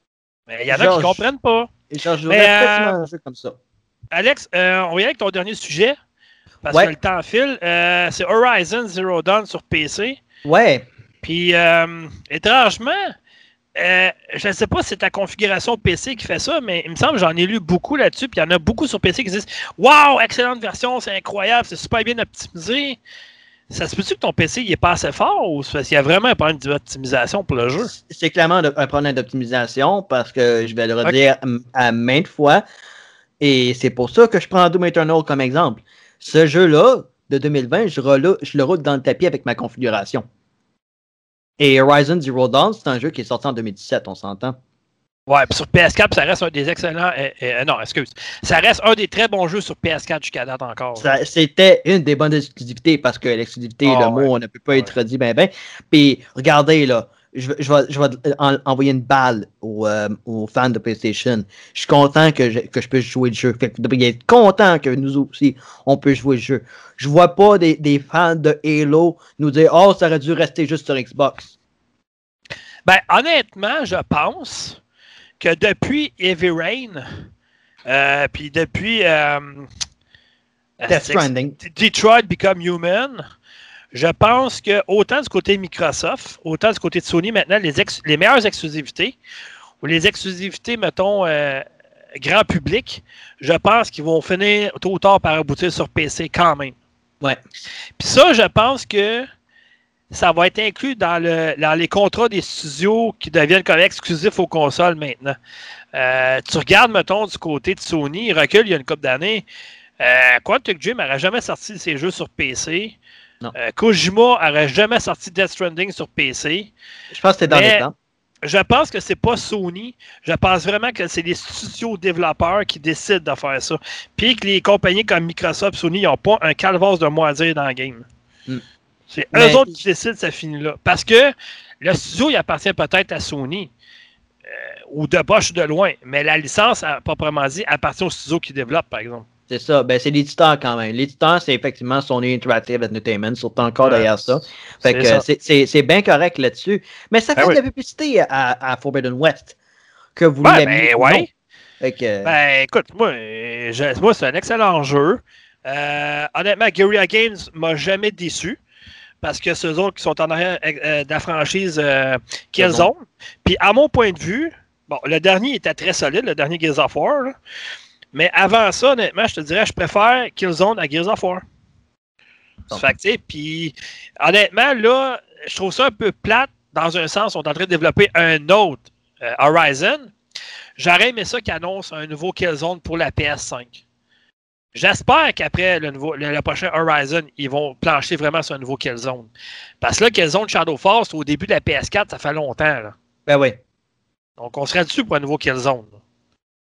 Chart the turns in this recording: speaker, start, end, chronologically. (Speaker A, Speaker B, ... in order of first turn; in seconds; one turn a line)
Speaker A: 0.5-1.7
Speaker B: 0.7-1.2
Speaker B: 1.9-3.6
Speaker A: 2.3-3.0
Speaker A: 4.1-6.0
Speaker A: 6.6-10.2
Speaker B: 10.4-10.8
Speaker A: 11.2-13.1
Speaker A: 13.8-23.0
Speaker A: 23.7-27.9
Speaker B: 27.9-32.6
Speaker B: 33.4-40.2
Speaker B: 41.6-44.6
Speaker A: 45.3-51.1
Speaker B: 51.0-71.5
Speaker A: 53.9-54.9
Speaker A: 72.9-74.8
Speaker A: 75.4-77.0
Speaker A: 77.9-79.7
Speaker A: 80.8-83.2
Speaker B: 80.9-81.6
Speaker A: 83.9-89.2
Speaker A: 89.8-91.7
Speaker A: 92.2-96.8
Speaker A: 98.0-99.3
Speaker A: 100.1-105.4
Speaker A: 105.9-109.4
Speaker A: 110.0-113.0
Speaker A: 113.5-116.7
Speaker B: 117.1-117.9
Speaker A: 117.5-117.8
Speaker A: 118.5-128.1
Speaker A: 129.1-133.7
Speaker B: 129.3-129.8
Speaker A: 134.5-139.3
Speaker B: 139.5-149.6
Speaker A: 143.8-144.1
Speaker A: 144.8-145.2
Speaker B: 150.2-151.3
Speaker A: 150.4-151.3
Speaker B: 151.8-152.3
Speaker A: 152.2-158.6
Speaker A: 159.2-167.3
Speaker B: 162.6-162.9
Speaker A: 168.1-171.4
Speaker A: 172.7-180.1
Speaker A: 180.8-183.8
Speaker A: 184.7-189.3
Speaker A: 189.8-192.9
Speaker B: 193.3-193.6
Speaker A: 194.4-196.0